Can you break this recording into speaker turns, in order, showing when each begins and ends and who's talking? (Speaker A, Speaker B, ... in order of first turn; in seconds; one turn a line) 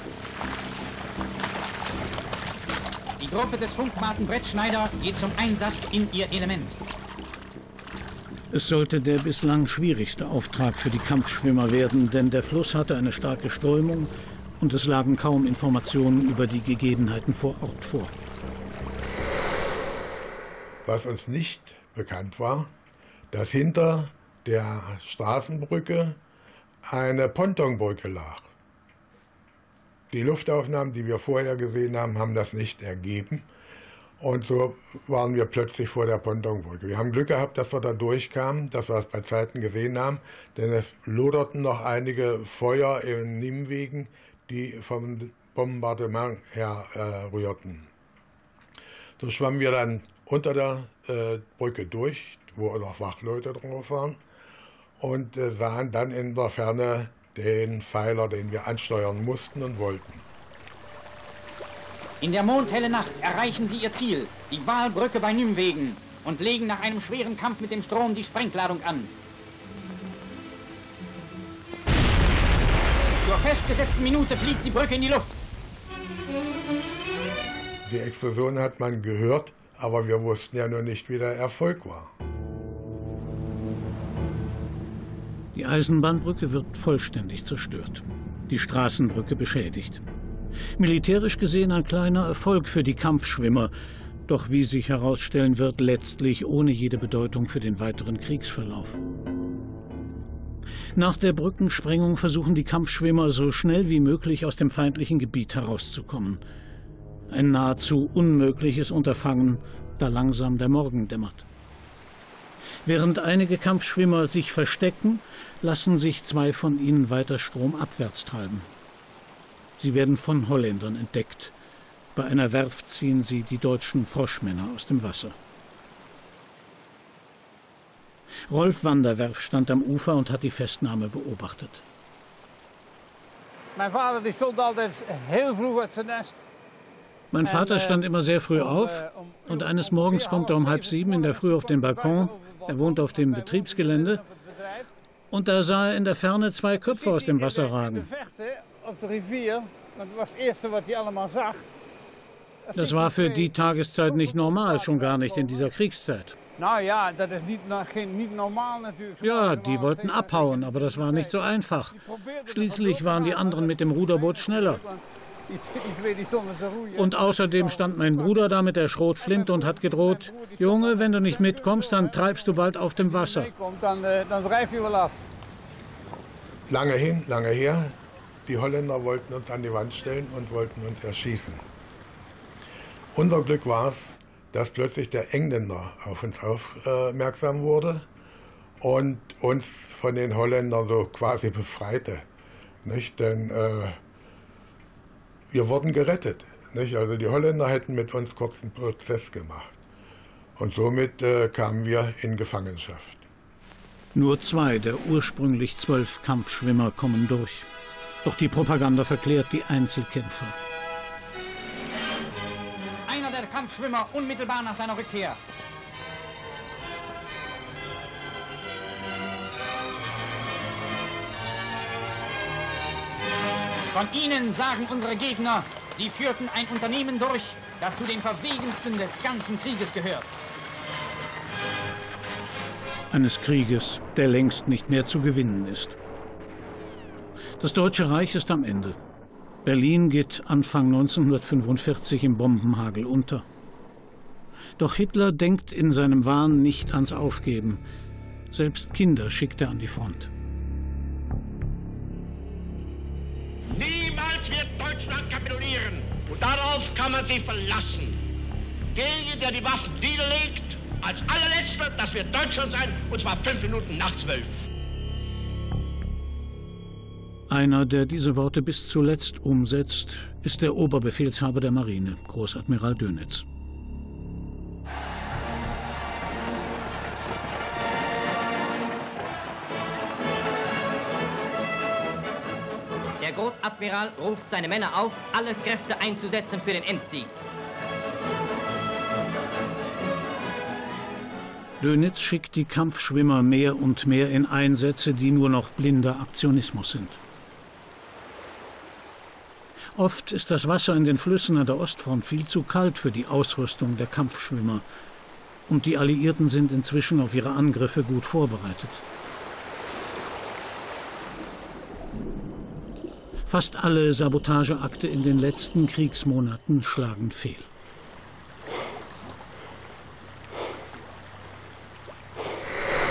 Speaker A: 3.2-6.7
Speaker B: 8.5-18.1
Speaker C: 20.8-22.7
Speaker C: 23.3-26.2
Speaker C: 26.9-28.5
Speaker C: 30.1-33.5
Speaker C: 34.2-47.9
Speaker C: 49.2-54.2
Speaker C: 55.0-60.2
Speaker A: 62.2-69.1
Speaker A: 73.1-75.4
Speaker C: 77.8-82.1
Speaker B: 85.5-90.0
Speaker B: 90.8-93.7
Speaker B: 94.3-99.0
Speaker B: 100.9-106.4
Speaker B: 107.3-111.5
Speaker B: 112.8-118.7
Speaker B: 119.8-121.5
Speaker B: 122.1-125.3
Speaker B: 128.5-131.8
Speaker D: 133.8-136.5
Speaker B: 137.3-144.2
Speaker D: 137.4-144.9
Speaker B: 145.3-148.1
Speaker D: 146.8-151.6
Speaker D: 152.7-153.5
Speaker B: 152.7-156.3
Speaker D: 154.1-155.7
Speaker D: 156.6-168.6
Speaker B: 159.2-164.8
Speaker B: 166.9-173.5
Speaker D: 169.2-175.1
Speaker C: 176.7-181.6
Speaker C: 183.1-188.1
Speaker C: 188.8-192.2
Speaker C: 192.8-194.0
Speaker C: 195.5-199.8
Speaker C: 200.6-203.2
Speaker B: 204.1-207.7
Speaker B: 208.2-210.6
Speaker A: 213.1-215.4
Speaker A: 223.9-230.3
Speaker B: 233.1-235.9
Speaker B: 237.6-239.0
Speaker B: 239.6-243.4
Speaker B: 244.8-247.8
Speaker B: 248.5-250.3
Speaker E: 253.7-258.2
Speaker E: 258.9-264.6
Speaker B: 267.5-273.4
Speaker F: 283.2-287.3
Speaker B: 291.8-297.2
Speaker B: 299.9-304.8
Speaker B: 305.7-309.0
Speaker B: 313.4-317.7